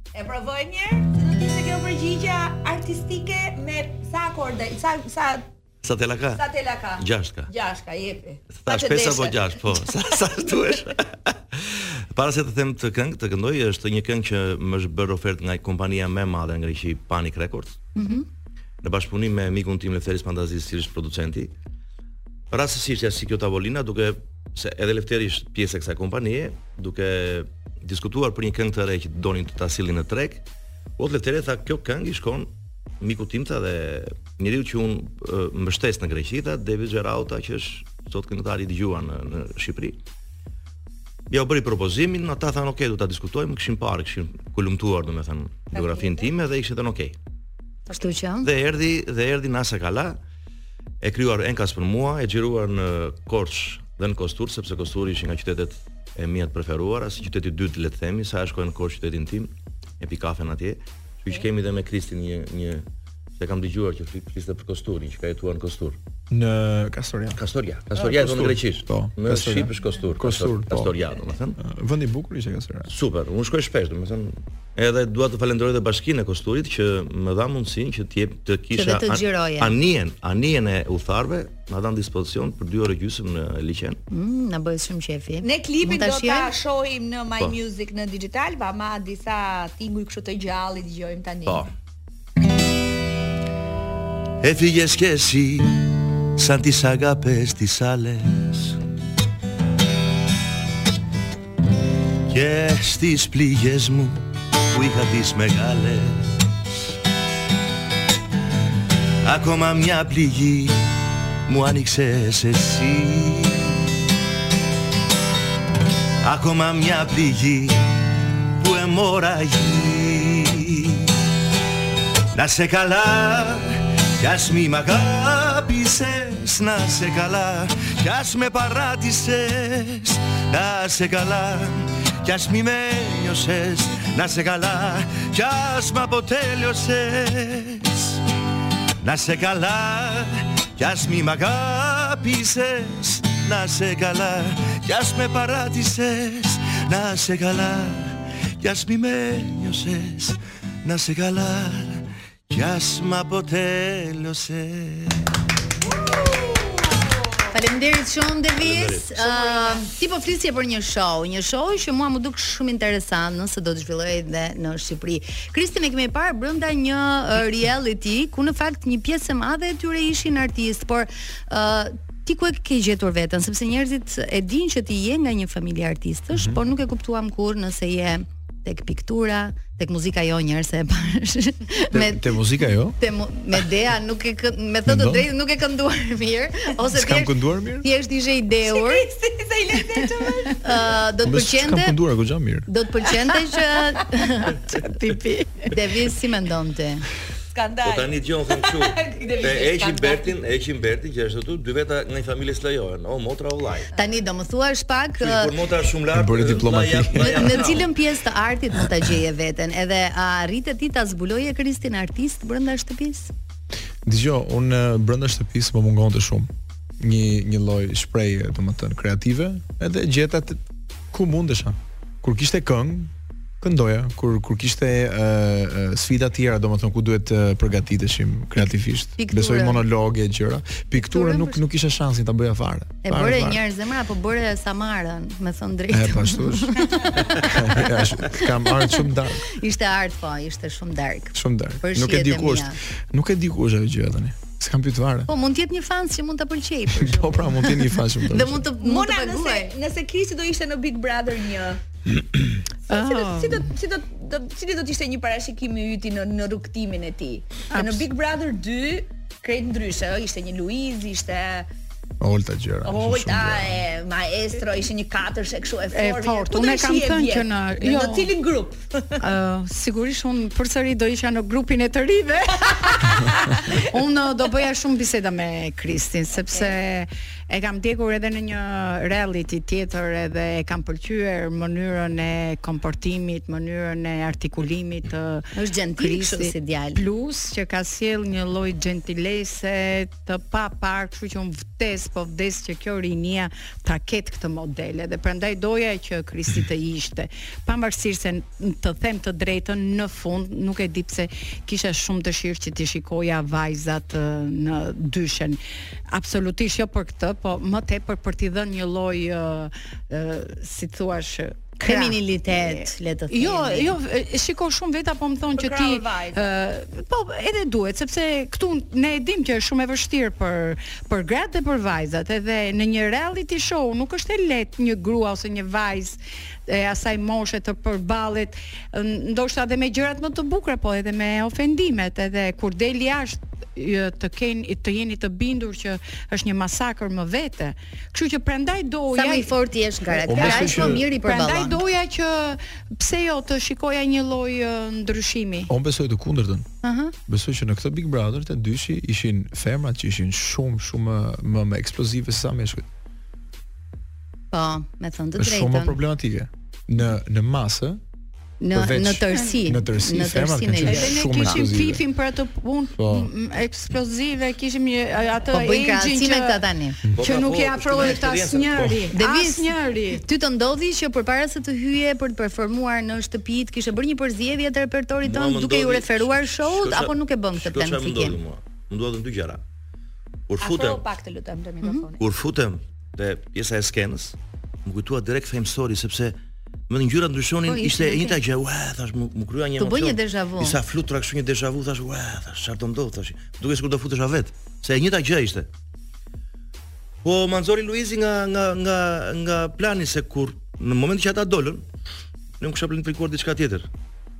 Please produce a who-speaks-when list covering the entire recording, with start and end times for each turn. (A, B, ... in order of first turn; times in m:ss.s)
0:00.1-0:05.4 A
0:05.8-0:06.4 B
0:06.3-0:09.4 A
0:07.0-0:07.5 B
0:08.6-0:17.9 B
0:18.0-0:18.2 C
0:18.8-0:21.5 B
0:22.5-0:30.4 B
0:31.0-0:40.0 B
0:41.3-0:47.2 B
0:45.7-0:46.2 A
0:47.9-0:48.5 C
0:48.4-0:50.2 B
0:51.0-1:02.8 B
1:03.4-1:06.0 B
1:06.3-1:07.4 D
1:07.4-1:11.6 B
1:08.0-1:11.0 D
1:11.6-1:12.9 D
1:12.9-1:24.0 B
1:18.7-1:19.7 C
1:24.1-1:26.5 C
1:25.4-1:31.6 A
1:34.4-1:38.8 B
1:42.3-1:46.4 B
1:49.2-1:50.8 B
1:51.5-1:53.9 B
1:56.2-1:58.0 B
1:58.6-2:01.1 B
2:02.3-2:18.2 B
2:19.0-2:35.3 B
2:37.5-3:02.4 C
2:38.6-2:39.7 B
2:56.3-2:56.6 D
3:01.9-3:03.0 D
3:03.0-3:09.1 C
3:04.8-3:05.3 D
3:06.9-3:07.9 D
3:08.6-3:10.6 A
3:10.6-3:12.0 C
3:11.2-3:12.7 D
3:12.7-3:14.6 C
3:14.6-3:15.8 E
3:15.7-3:17.1 C
3:17.5-3:20.3 A
3:17.8-3:23.9 B
3:23.9-3:25.6 C
3:25.2-3:27.9 B
3:26.1-3:27.7 D
3:27.1-3:33.3 C
3:34.0-3:53.6 D
3:49.2-3:49.8 C
3:50.9-3:51.6 C
3:53.0-4:02.8 C
3:55.9-3:59.5 D
4:01.3-4:05.3 D
4:05.3-4:09.7 C
4:07.0-4:08.6 D
4:08.8-4:11.8 A
4:12.9-4:21.7 A
4:12.9-4:13.7 E
4:17.7-4:18.0 E
4:22.2-4:23.8 D
4:22.8-4:29.2 A
4:25.9-4:28.3 E
4:29.2-5:05.6 E
4:45.6-4:47.0 C
5:06.1-5:39.5 E
5:11.8-5:14.0 C
5:15.5-5:16.5 A
5:39.1-5:41.8 C
5:40.1-5:45.7 E
5:40.3-5:41.0 D
5:45.7-5:46.7 D
5:46.8-5:47.1 C
5:47.3-5:52.9 D
5:54.5-5:56.0 C
5:55.4-5:58.0 D
5:58.6-6:01.6 C
5:58.7-6:02.0 D
6:00.8-6:06.6 E
6:02.9-6:03.3 D
6:05.5-6:07.0 C
6:07.2-6:09.1 B
6:07.2-6:10.2 E
6:09.1-6:18.4 C
6:15.2-6:19.6 B
6:20.5-6:21.0 B
6:20.6-6:22.2 A
6:22.2-6:26.4 B
6:26.9-6:35.7 B
6:27.7-6:28.4 C
6:29.8-6:30.8 C
6:37.2-6:41.8 B
6:42.6-6:43.9 B